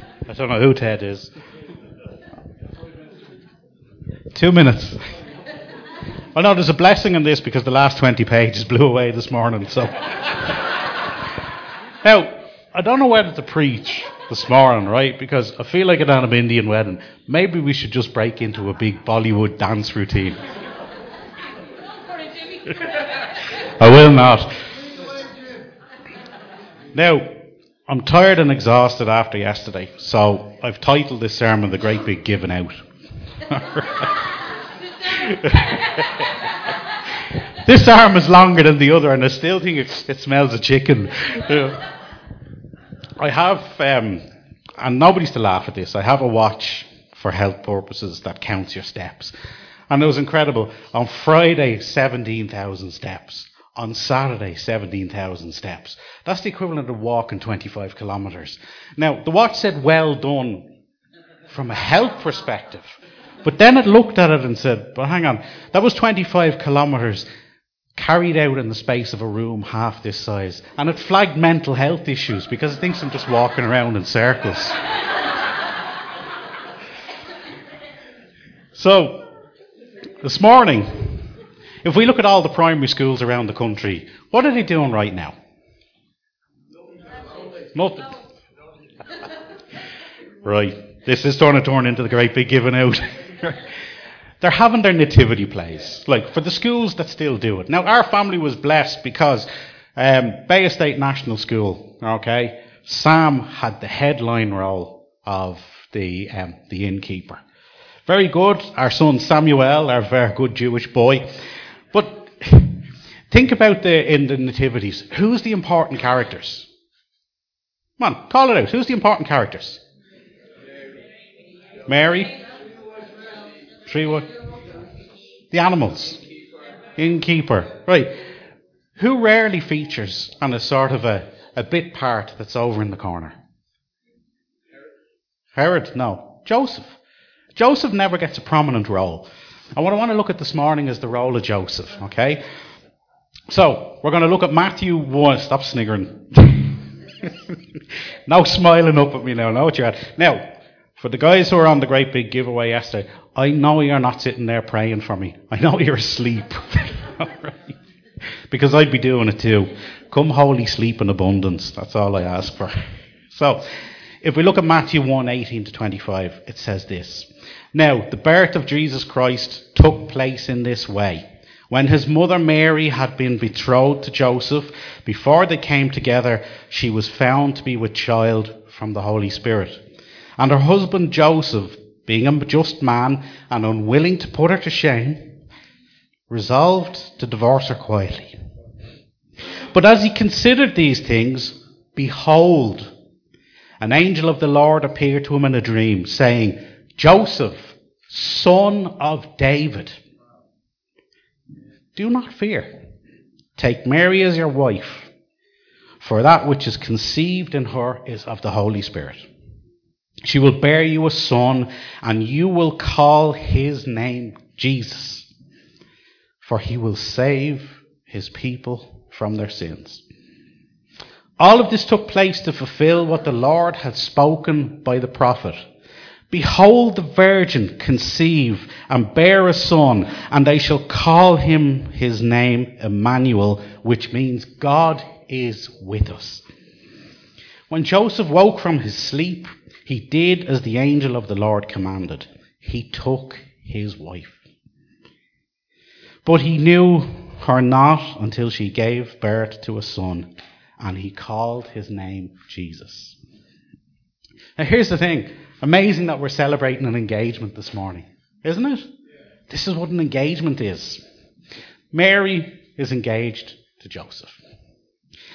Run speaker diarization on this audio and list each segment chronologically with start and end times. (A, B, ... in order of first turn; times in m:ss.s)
0:00.2-0:01.3 A
0:04.3-0:05.0 A
0:06.3-0:10.6 A
0:12.0-0:20.4 A
0:23.6-0:24.6 A
0:26.9-0:32.7 A
0:33.4-0:34.2 A
0:35.0-0:36.3 A
0:37.6-0:41.9 A
0:43.2-0:44.2 A
0:44.8-0:49.3 A
0:49.9-1:00.7 A
1:01.5-1:07.3 A
1:08.0-1:14.8 A
1:18.7-1:19.2 A
1:20.2-1:21.3 A
1:21.8-1:25.3 A
1:27.7-1:28.2 A
1:30.4-1:33.7 A
1:34.4-1:47.4 A
1:48.1-1:51.3 A
1:51.9-1:56.7 A
1:58.0-1:59.8 A
2:01.8-2:02.4 A
2:03.8-2:04.4 A
2:05.5-2:06.2 A
2:07.0-2:08.1 A
2:09.0-2:13.4 A
2:15.5-2:17.0 A
2:17.5-2:22.4 A
2:23.5-2:27.6 A
2:28.2-2:37.8 A
2:38.5-2:42.8 A
2:43.3-2:43.6 A
2:44.2-2:59.8 A
3:00.4-3:05.4 A
3:06.3-3:08.4 A
3:09.7-3:12.9 A
3:13.8-3:20.0 A
3:21.9-3:22.8 A
3:23.6-3:25.1 A
3:26.0-3:29.3 A
3:30.2-3:35.3 A
3:36.4-3:40.0 A
3:41.4-3:45.6 A
3:46.3-3:56.4 A
3:57.7-4:04.4 A
4:06.2-4:13.2 A
4:14.6-4:18.9 A
4:19.5-4:21.0 A
4:21.9-4:24.4 A